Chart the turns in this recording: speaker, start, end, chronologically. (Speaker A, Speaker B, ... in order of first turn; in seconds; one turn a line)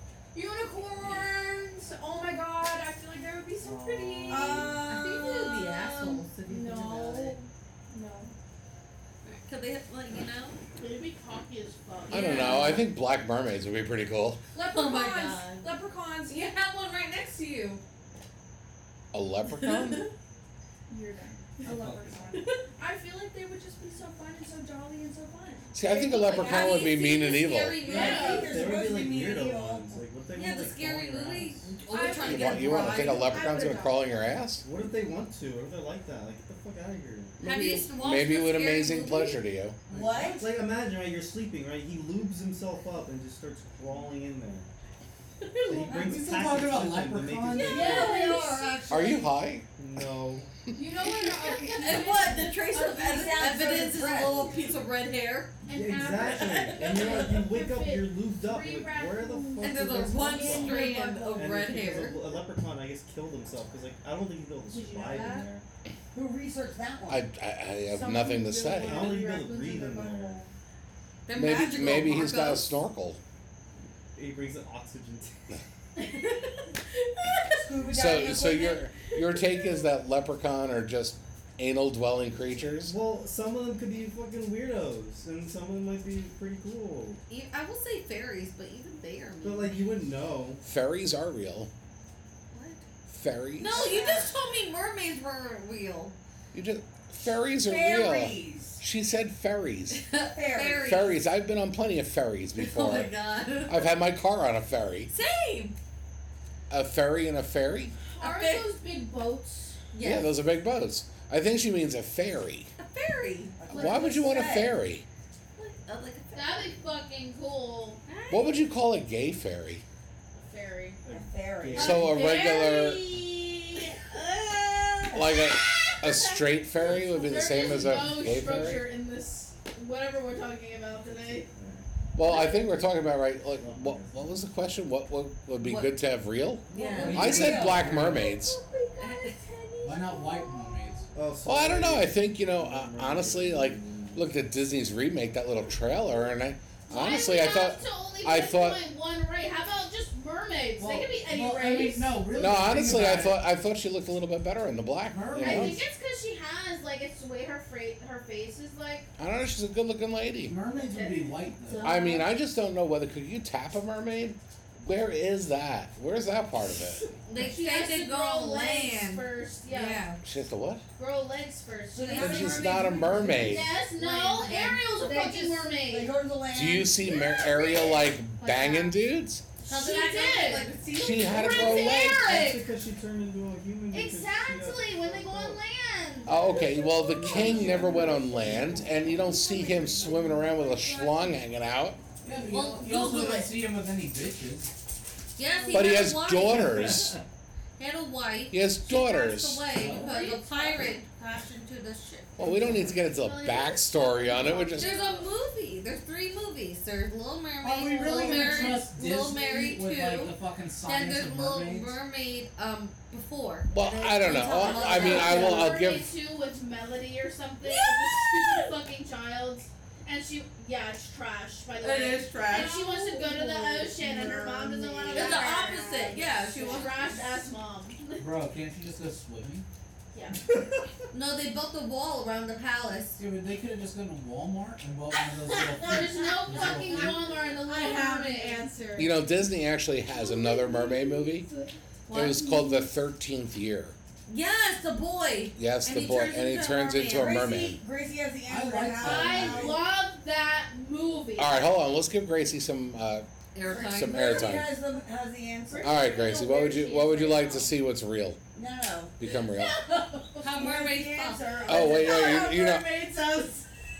Speaker A: 0.3-5.4
Speaker B: 3.6-4.8
Speaker C: 4.3-6.2
Speaker D: 4.8-7.4
Speaker A: 6.4-8.3
Speaker D: 9.2-10.6
Speaker E: 10.8-12.7
Speaker D: 12.1-12.9
Speaker F: 12.1-14.4
Speaker A: 14.5-16.9
Speaker D: 14.7-15.7
Speaker D: 16.3-17.8
Speaker F: 19.1-20.1
Speaker D: 19.6-20.1
Speaker A: 20.9-27.2
Speaker G: 21.6-22.3
Speaker F: 25.7-27.8
Speaker D: 26.2-28.6
Speaker C: 27.8-30.0
Speaker E: 27.9-28.5
Speaker A: 27.9-28.5
Speaker B: 28.5-31.8
Speaker D: 30.3-33.5
Speaker A: 31.8-34.2
Speaker F: 32.1-34.6
Speaker B: 34.6-37.4
Speaker D: 37.4-39.4
Speaker F: 38.0-39.8
Speaker G: 39.9-40.4
Speaker C: 39.9-40.4
Speaker B: 40.4-44.7
Speaker D: 45.5-45.8
Speaker B: 45.7-48.1
Speaker G: 45.7-47.7
Speaker D: 47.6-49.2
Speaker C: 47.7-49.3
Speaker F: 48.9-49.7
Speaker B: 49.8-50.5
Speaker A: 50.8-54.9
Speaker D: 51.3-55.6
Speaker C: 53.0-54.5
Speaker A: 55.7-61.4
Speaker B: 55.7-60.8
Speaker D: 59.6-62.2
Speaker B: 61.3-65.6
Speaker A: 64.7-65.5
Speaker C: 66.1-67.2
Speaker F: 67.1-69.2
Speaker A: 67.9-70.5
Speaker B: 68.8-70.4
Speaker D: 71.3-72.8
Speaker F: 71.3-73.2
Speaker B: 74.2-75.6
Speaker D: 76.0-76.3
Speaker C: 77.5-78.8
Speaker F: 77.9-83.0
Speaker B: 82.6-87.2
Speaker D: 87.3-90.0
Speaker B: 89.4-90.6
Speaker F: 90.6-91.7
Speaker D: 92.5-92.8
Speaker F: 93.1-93.8
Speaker D: 93.6-96.2
Speaker C: 93.7-94.4
Speaker F: 96.5-100.0
Speaker C: 97.6-98.8
Speaker D: 99.9-101.2
Speaker C: 100.3-101.0
Speaker F: 100.8-103.1
Speaker D: 102.6-103.9
Speaker F: 103.7-105.1
Speaker D: 105.1-105.8
Speaker F: 106.7-107.9
Speaker D: 108.1-108.7
Speaker E: 108.2-109.8
Speaker D: 109.9-110.3
Speaker F: 110.0-112.7
Speaker D: 112.8-114.5
Speaker C: 113.5-114.8
Speaker F: 113.7-115.0
Speaker D: 115.6-116.8
Speaker E: 116.3-118.0
Speaker D: 118.0-118.6
Speaker F: 118.3-119.8
Speaker E: 120.3-121.0
Speaker B: 121.0-122.2
Speaker C: 121.1-122.1
Speaker F: 121.8-123.0
Speaker E: 122.2-123.4
Speaker A: 122.2-122.6
Speaker F: 125.1-128.9
Speaker E: 126.8-131.5
Speaker B: 131.0-131.9
Speaker F: 132.2-138.6
Speaker D: 132.3-132.6
Speaker B: 133.6-134.5
Speaker D: 135.6-136.0
Speaker D: 136.7-137.5
Speaker C: 136.7-138.2
Speaker G: 137.0-138.2
Speaker A: 138.2-140.9
Speaker D: 139.0-139.5
Speaker G: 139.8-141.1
Speaker B: 141.1-144.3
Speaker F: 141.4-148.8
Speaker E: 146.9-152.2
Speaker G: 150.8-153.4
Speaker F: 152.3-155.8
Speaker G: 155.1-155.8
Speaker B: 155.3-155.7
Speaker E: 155.4-159.1
Speaker F: 159.2-160.6
Speaker G: 160.5-162.0
Speaker E: 160.7-162.3
Speaker F: 161.8-167.1
Speaker D: 167.2-170.2
Speaker E: 167.3-170.0
Speaker F: 170.2-170.8
Speaker E: 171.0-176.1
Speaker C: 171.9-173.8
Speaker F: 172.2-173.7
Speaker D: 174.0-175.6
Speaker C: 175.7-177.3
Speaker F: 176.5-179.4
Speaker E: 177.5-178.1
Speaker D: 178.4-179.1
Speaker D: 179.7-182.0
Speaker E: 179.7-182.7
Speaker F: 180.9-182.4
Speaker B: 182.1-185.6
Speaker E: 183.9-186.5
Speaker F: 186.3-192.0
Speaker A: 186.6-187.8
Speaker B: 187.1-189.1
Speaker A: 189.1-190.3
Speaker D: 189.4-191.3
Speaker G: 192.2-194.7
Speaker D: 192.5-193.6
Speaker D: 195.4-196.9
Speaker F: 195.7-197.2
Speaker D: 197.8-202.9
Speaker F: 198.5-199.7
Speaker G: 199.8-200.2
Speaker E: 200.1-200.9
Speaker F: 202.4-205.0
Speaker E: 202.9-205.3
Speaker D: 204.7-215.8
Speaker G: 207.6-211.9
Speaker F: 213.7-216.1
Speaker E: 214.7-228.3
Speaker D: 217.6-218.7
Speaker D: 221.8-222.8
Speaker A: 222.5-226.8
Speaker D: 225.1-227.1
Speaker G: 228.2-229.7
Speaker E: 230.1-230.4
Speaker D: 231.1-233.2
Speaker G: 233.2-237.2
Speaker D: 235.2-237.1
Speaker E: 235.8-238.7
Speaker A: 237.3-239.3
Speaker F: 239.0-241.5
Speaker A: 240.1-242.7
Speaker D: 242.1-242.3
Speaker F: 242.1-243.9
Speaker D: 244.3-247.7
Speaker F: 245.5-247.8
Speaker C: 246.9-249.8
Speaker G: 248.5-249.8
Speaker E: 249.0-251.7
Speaker F: 251.4-253.3
Speaker D: 253.5-254.5
Speaker C: 253.7-255.9
Speaker F: 253.8-254.7
Speaker E: 255.7-257.7
Speaker F: 255.8-258.4
Speaker C: 258.5-259.1
Speaker F: 259.2-259.8
Speaker E: 259.6-260.4
Speaker D: 260.4-261.7
Speaker C: 260.4-262.3
Speaker F: 261.7-262.9
Speaker A: 261.8-263.0